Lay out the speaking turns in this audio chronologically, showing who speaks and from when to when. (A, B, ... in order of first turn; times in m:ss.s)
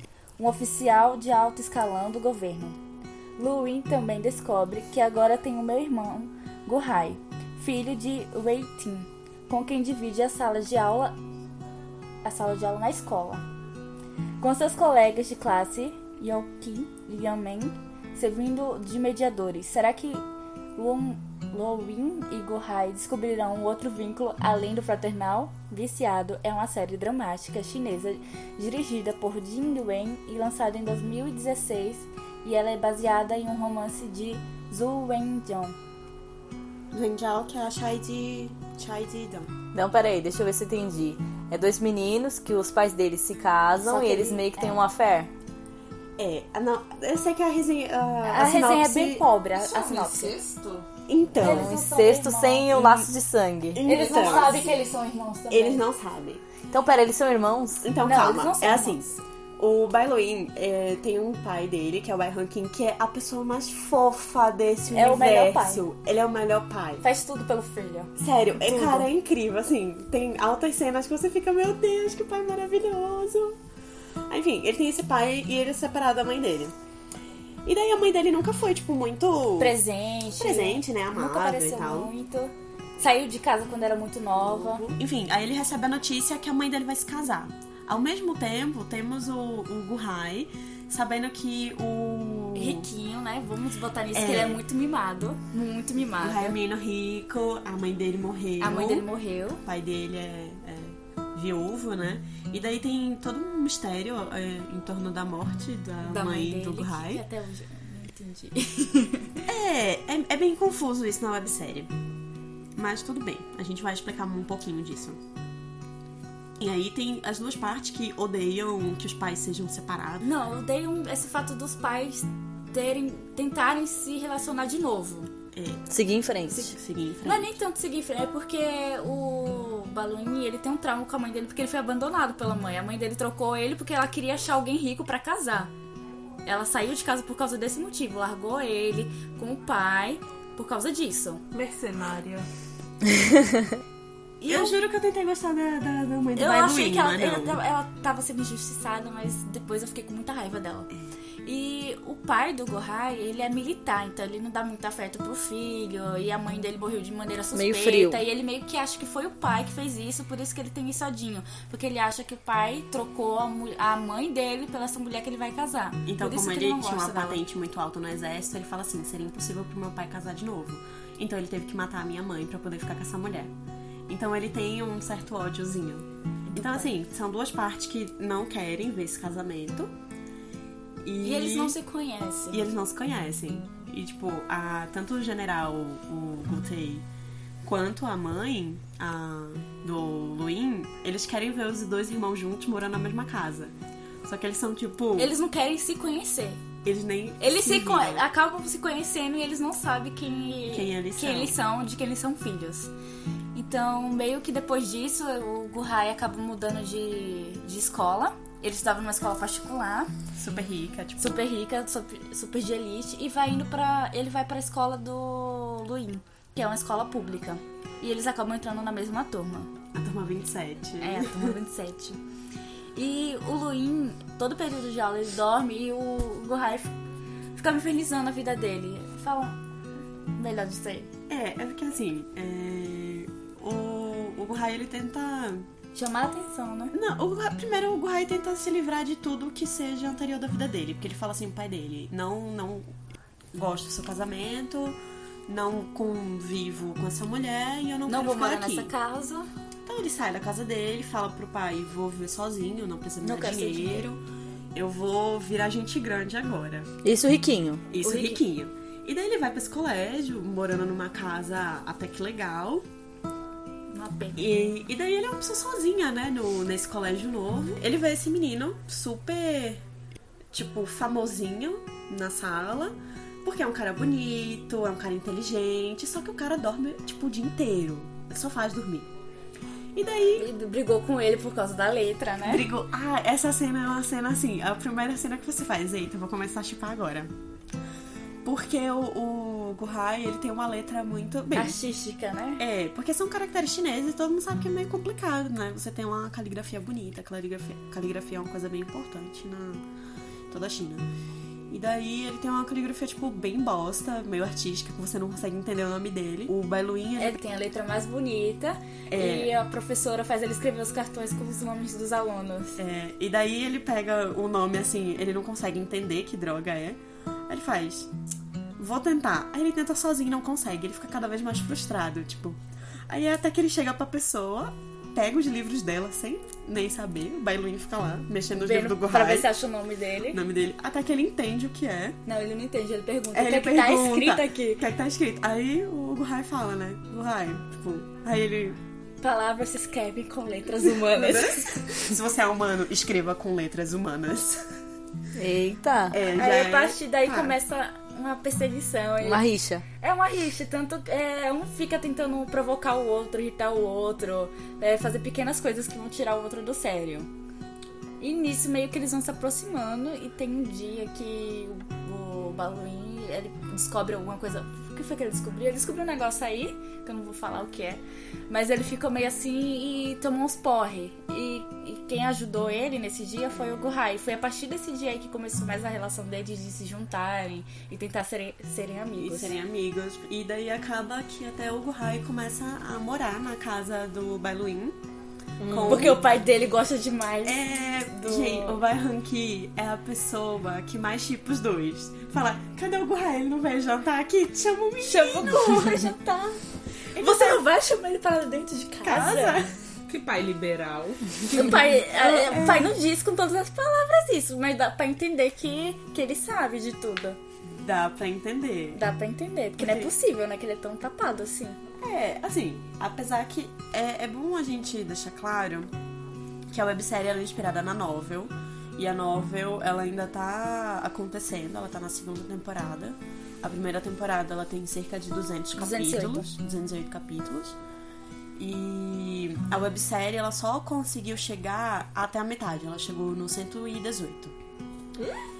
0:00.4-0:02.8 A
0:03.4-0:11.1 A
0:12.2-0:13.4 A
0:14.4-0:20.2 A
0:20.8-0:35.7 A
0:36.9-0:39.5 B
0:39.7-0:45.3 C
0:43.8-0:44.8 A
0:46.2-0:49.2 B
0:48.2-0:50.4 A
0:49.6-0:50.9 D
0:51.1-0:51.7 B
0:51.4-0:53.1 A
0:51.4-0:53.8 C
0:53.7-0:54.6 B
0:53.8-0:55.8 A
0:53.9-0:54.7 D
0:55.5-0:56.4 B
0:56.7-0:57.8 C
0:57.8-1:07.0 B
0:58.0-0:59.0 A
1:04.9-1:05.8 A
1:07.0-1:09.1 A
1:08.2-1:13.6 B
1:14.3-1:16.7 B
1:17.6-1:19.8 B
1:19.6-1:24.8 A
1:20.4-1:22.1 B
1:24.4-1:32.9 B
1:32.5-1:36.6 A
1:34.1-1:34.6 B
1:36.2-1:39.1 B
1:38.6-1:39.6 A
1:39.6-1:47.2 B
1:46.0-1:49.5 A
1:49.4-1:51.9 B
1:52.8-1:55.2 B
1:56.6-2:00.3 B
2:00.2-2:05.3 A
2:05.5-2:05.9 B
2:05.9-2:06.7 C
2:06.5-2:07.6 B
2:07.2-2:15.7 A
2:16.4-2:21.4 A
2:21.5-2:22.5 D
2:23.1-2:23.7 C
2:24.4-2:24.7 A
2:24.5-2:27.6 B
2:26.4-2:30.9 A
2:31.4-2:47.4 A
2:37.5-2:38.2 C
2:46.0-2:53.5 B
2:54.1-2:59.9 B
2:56.5-2:56.9 A
3:01.0-3:01.8 B
3:01.2-3:02.7 A
3:02.5-3:07.0 B
3:07.6-3:13.7 B
3:14.2-3:15.3 B
3:15.2-3:16.6 A
3:16.8-3:18.2 B
3:17.4-3:22.9 A
3:20.7-3:21.6 B
3:23.5-3:30.1 A
3:30.4-3:31.4 B
3:31.2-3:39.7 A
3:39.9-3:41.6 B
3:41.0-3:42.2 A
3:42.9-3:46.9 A
3:47.6-3:49.5 A
3:50.4-3:51.1 A
3:51.3-3:55.7 B
3:55.9-3:56.9 A
3:56.9-4:02.9 B
4:03.5-4:08.9 B
4:08.1-4:09.5 A
4:09.8-4:14.2 B
4:13.2-4:14.1 A
4:14.7-4:16.9 B
4:17.0-4:17.8 C
4:17.9-4:22.8 B
4:18.0-4:18.4 A
4:23.9-4:24.7 A
4:24.3-4:29.8 B
4:30.5-4:32.9 B
4:33.4-4:39.1 B
4:39.9-4:40.5 B
4:40.4-4:42.7 A
4:42.4-4:47.3 B
4:48.4-4:51.8 B
4:51.5-4:52.6 A
4:52.6-4:59.8 B
5:00.5-5:01.0 B
5:01.7-5:07.4 B
5:07.2-5:12.8 A
5:09.1-5:09.5 B
5:12.8-5:18.1 B
5:18.8-5:29.5 B
5:28.5-5:30.4 A
5:30.3-5:32.2 B
5:32.2-5:34.8 A
5:33.3-5:38.8 B
5:39.2-5:41.9 A
5:40.8-5:44.6 B
5:45.4-5:46.2 C
5:46.1-5:47.6 B
5:46.3-5:49.4 A
5:49.2-5:49.8 C
5:50.0-5:57.3 A
5:58.2-6:19.5 A
6:13.6-6:13.9 B
6:19.2-6:25.0 B
6:25.6-6:26.2 D
6:25.6-6:26.4 B
6:25.9-6:28.8 A
6:27.4-6:35.9 B
6:35.0-6:36.6 A
6:37.2-6:37.6 B
6:37.2-6:39.7 A
6:39.0-6:39.8 B
6:40.1-6:42.9 D
6:41.5-6:47.4 A
6:47.7-6:49.0 B
6:48.9-6:51.8 A
6:49.8-6:50.1 B
6:52.0-6:55.9 B
6:56.7-7:07.8 B
7:05.8-7:06.5 A
7:08.6-7:14.6 B